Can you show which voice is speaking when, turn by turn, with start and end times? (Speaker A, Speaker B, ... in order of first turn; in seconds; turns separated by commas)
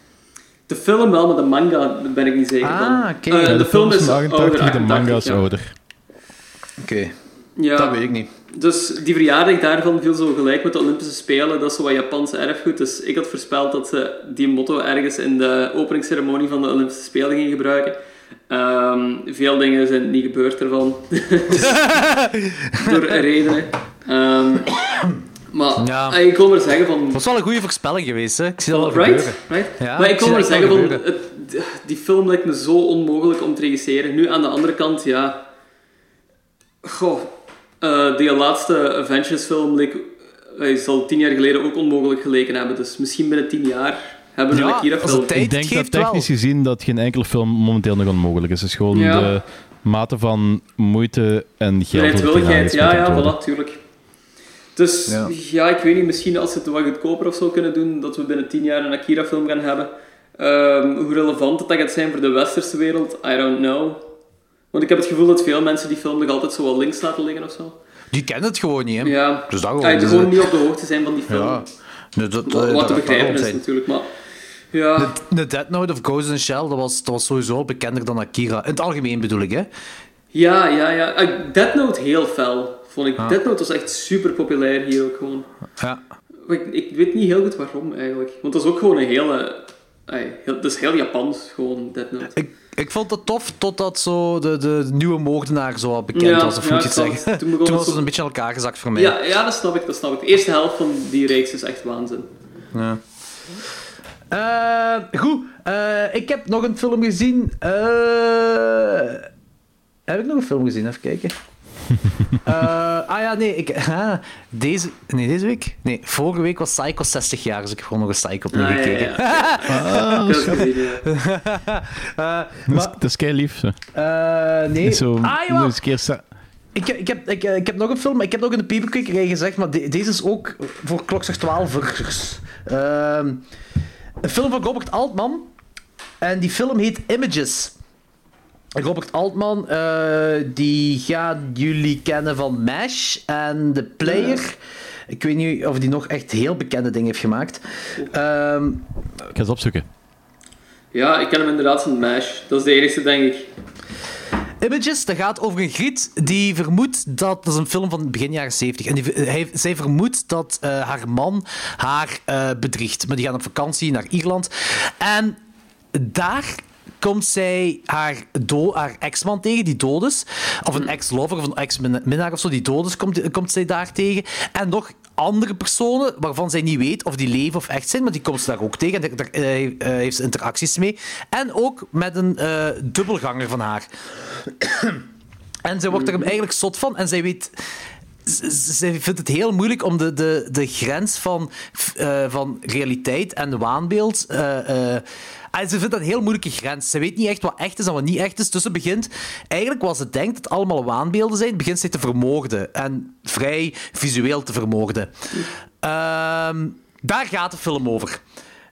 Speaker A: 0.7-5.5, Speaker B: 2.6-3.6, Speaker C: 3.5-5.7, Speaker B: 6.8-7.1, Speaker A: 7.6-18.0, Speaker B: 7.8-8.3, Speaker A: 18.5-21.9, Speaker B: 21.5-23.2, Speaker A: 22.8-24.7, Speaker B: 24.7-25.2, Speaker A: 25.5-27.2, Speaker B: 25.8-26.2, Speaker B: 27.1-31.1, Speaker A: 28.7-35.4, Speaker A: 36.8-45.4, Speaker B: 44.5-46.3, Speaker C: 45.3-53.4, Speaker A: 48.9-49.3, Speaker A: 51.9-53.8, Speaker A: 54.8-64.1, Speaker B: 55.1-55.3, Speaker A: 64.7-67.8, Speaker B: 68.1-70.5, Speaker A: 69.0-71.6, Speaker B: 71.3-73.6, Speaker A: 72.5-74.1, Speaker A: 74.7-75.2, Speaker B: 75.0-79.7, Speaker A: 80.3-85.5, Speaker A: 86.5-92.3, Speaker B: 92.3-99.2, Speaker A: 96.1-98.1, Speaker A: 99.0-102.3, Speaker B: 102.7-103.0, Speaker B: 104.3-109.3, Speaker B: 110.1-111.3, Speaker B: 112.4-123.0, Speaker A: 118.5-121.0, Speaker C: 119.7-120.7, Speaker C: 122.7-123.8, Speaker B: 123.9-125.8, Speaker C: 124.8-126.2, Speaker B: 126.8-133.4, Speaker B: 134.2-135.5, Speaker B: 136.2-137.7, Speaker B: 138.8-144.6, Speaker A: 144.1-144.4, Speaker B: 145.1-148.8, Speaker C: 149.3-149.9, Speaker A: 150.9-153.5, Speaker B: 154.6-165.4, Speaker B: 165.9-183.9, Speaker B: 184.4-185.0, Speaker B: 185.7-187.5, Speaker A: 186.0-186.2, Speaker B: 188.2-205.2, Speaker B: 205.8-208.2